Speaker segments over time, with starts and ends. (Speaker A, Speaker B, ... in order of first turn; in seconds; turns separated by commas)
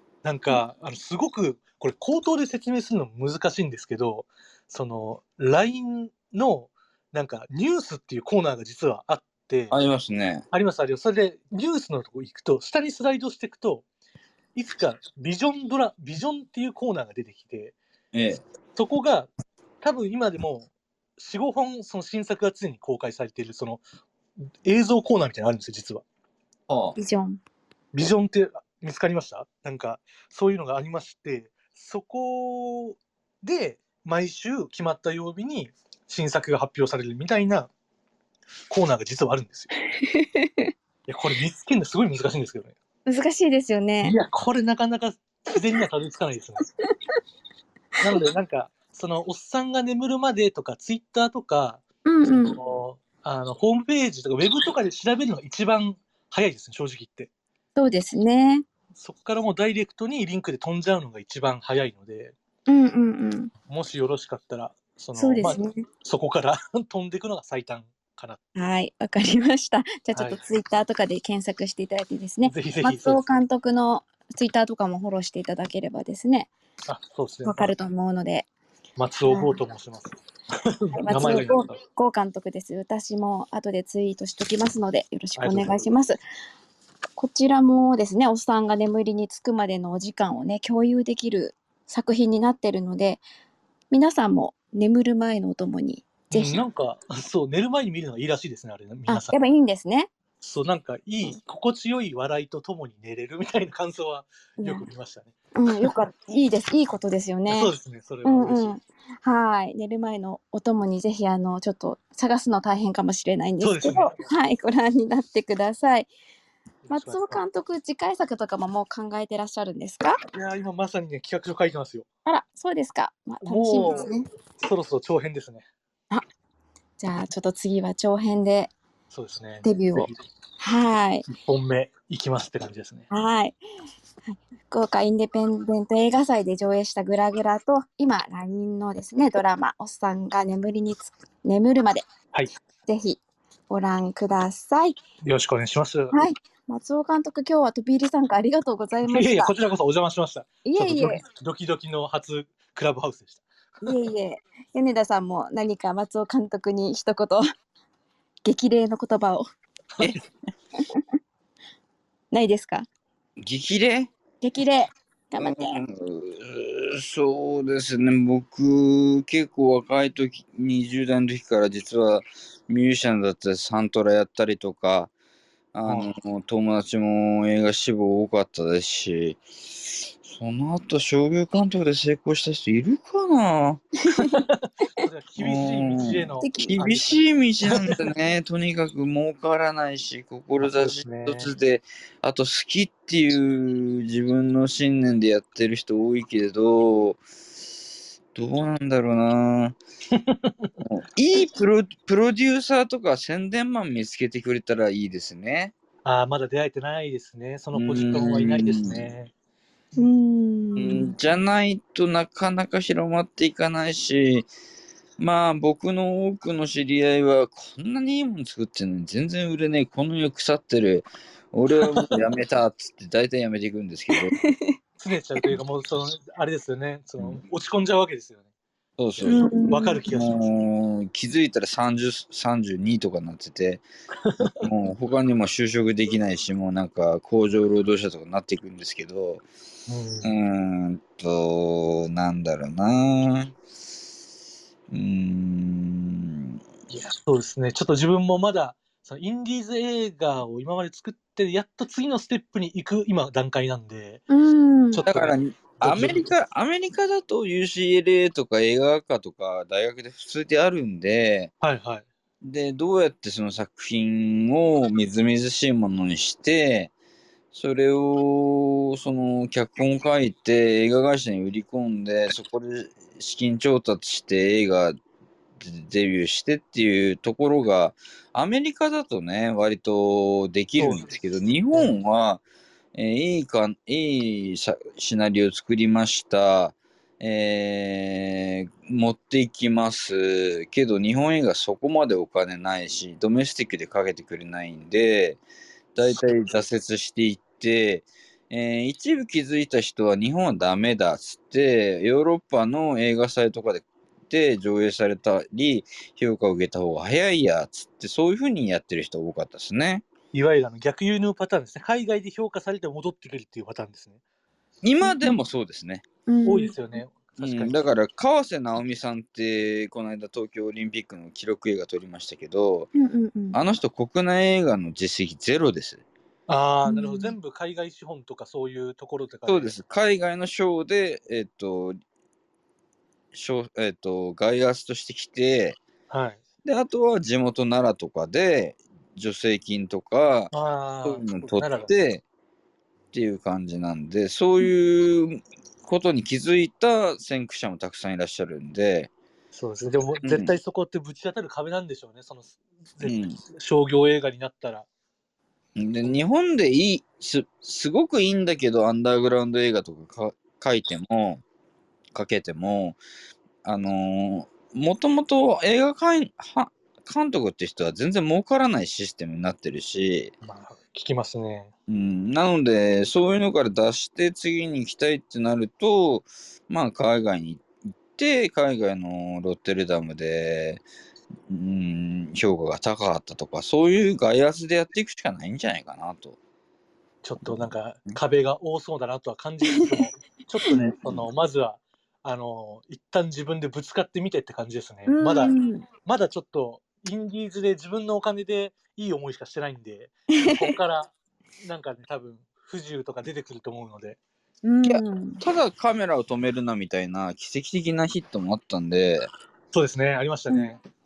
Speaker A: 0.2-9.8, Speaker B: 9.7-10.5, Speaker A: 10.5-13.8, Speaker A: 14.6-17.8, Speaker B: 18.1-18.4, Speaker A: 18.8-19.3, Speaker A: 19.8-23.8, Speaker A: 24.6-26.1, Speaker B: 26.7-27.0, Speaker C: 27.0-27.4, Speaker A: 27.9-37.7, Speaker A: 38.7-39.7, Speaker C: 40.0-40.7, Speaker A: 41.1-42.8, Speaker C: 43.1-44.2, Speaker A: 44.0-46.7, Speaker A: 48.0-57.3, Speaker C: 52.0-52.6, Speaker C: 57.8-58.6, Speaker A: 59.0-62.4, Speaker C: 62.7-63.5, Speaker A: 63.7-68.4, Speaker C: 65.2-65.8, Speaker C: 68.6-76.5, Speaker A: 70.1-70.4, Speaker A: 72.4-73.2, Speaker A: 76.9-77.7, Speaker C: 77.4-78.5, Speaker A: 79.0-81.7, Speaker C: 79.3-79.5, Speaker C: 80.9-86.2, Speaker A: 85.4-85.8, Speaker C: 87.2-93.2, Speaker C: 93.9-96.7, Speaker A: 96.3-99.4, Speaker C: 99.1-100.1, Speaker A: 100.4-105.3, Speaker C: 104.6-104.9, Speaker C: 105.5-107.7, Speaker A: 107.5-108.8, Speaker C: 108.2-116.1, Speaker A: 113.6-114.2, Speaker A: 116.9-117.4, Speaker C: 116.9-120.2, Speaker A: 120.3-122.1, Speaker C: 122.3-124.3, Speaker A: 123.4-125.7, Speaker C: 127.0-128.7, Speaker A: 129.1-130.2, Speaker C: 129.6-131.2, Speaker A: 131.3-133.1, Speaker C: 133.1-133.6, Speaker C: 134.2-142.1, Speaker C: 142.9-145.0, Speaker A: 145.2-146.1, Speaker C: 146.1-149.5, Speaker A: 149.1-153.9, Speaker C: 150.7-151.2, Speaker C: 153.8-157.5, Speaker C: 158.4-159.5, Speaker C: 162.3-162.9, Speaker B: 163.4-164.1, Speaker C: 164.4-165.8, Speaker B: 165.4-175.1, Speaker B: 175.7-179.4, Speaker A: 175.8-176.1, Speaker B: 180.2-184.3, Speaker A: 184.6-187.2, Speaker B: 185.4-197.2, Speaker C: 186.4-186.8, Speaker A: 190.6-191.5, Speaker B: 198.3-199.8, Speaker A: 200.1-200.7, Speaker B: 200.8-205.7, Speaker A: 206.0-209.3, Speaker B: 207.7-209.1, Speaker C: 210.0-211.2, Speaker B: 210.8-214.5, Speaker B: 215.2-224.4, Speaker C: 224.1-224.8, Speaker A: 225.0-228.4, Speaker B: 229.0-233.8, Speaker A: 229.2-230.5, Speaker C: 229.2-230.0, Speaker A: 234.2-234.7, Speaker B: 234.4-239.4, Speaker A: 239.9-240.3, Speaker B: 240.2-243.5, Speaker B: 244.9-246.5, Speaker A: 246.9-254.2, Speaker C: 254.3-255.0, Speaker A: 254.9-256.3, Speaker B: 255.0-261.5, Speaker A: 261.6-262.1, Speaker B: 262.4-266.9, Speaker B: 267.5-275.0, Speaker B: 275.6-282.4, Speaker A: 280.8-281.1, Speaker B: 282.9-295.4, Speaker B: 295.9-310.1, Speaker A: 310.3-314.2, Speaker B: 314.8-316.1, Speaker C: 315.0-315.4, Speaker C: 316.3-316.7, Speaker A: 316.4-317.9, Speaker B: 317.4-322.9, Speaker C: 322.9-323.6, Speaker B: 323.5-326.0, Speaker A: 326.5-329.7, Speaker C: 326.9-327.4, Speaker B: 329.5-332.0, Speaker B: 333.3-335.8, Speaker A: 336.1-336.4, Speaker B: 336.6-340.5, Speaker A: 340.5-341.9, Speaker B: 341.0-342.2, Speaker B: 343.1-349.1, Speaker A: 349.5-354.9, Speaker B: 350.2-350.6, Speaker B: 353.0-353.4, Speaker B: 355.8-361.4, Speaker B: 362.1-363.0, Speaker B: 363.6-370.3, Speaker A: 370.4-371.7, Speaker B: 371.9-380.8, Speaker B: 381.5-386.4, Speaker A: 387.2-404.2, Speaker B: 387.4-388.2, Speaker C: 390.6-390.9, Speaker C: 395.1-395.9, Speaker C: 400.4-400.8, Speaker C: 404.6-405.4, Speaker B: 404.8-409.3, Speaker A: 409.7-410.8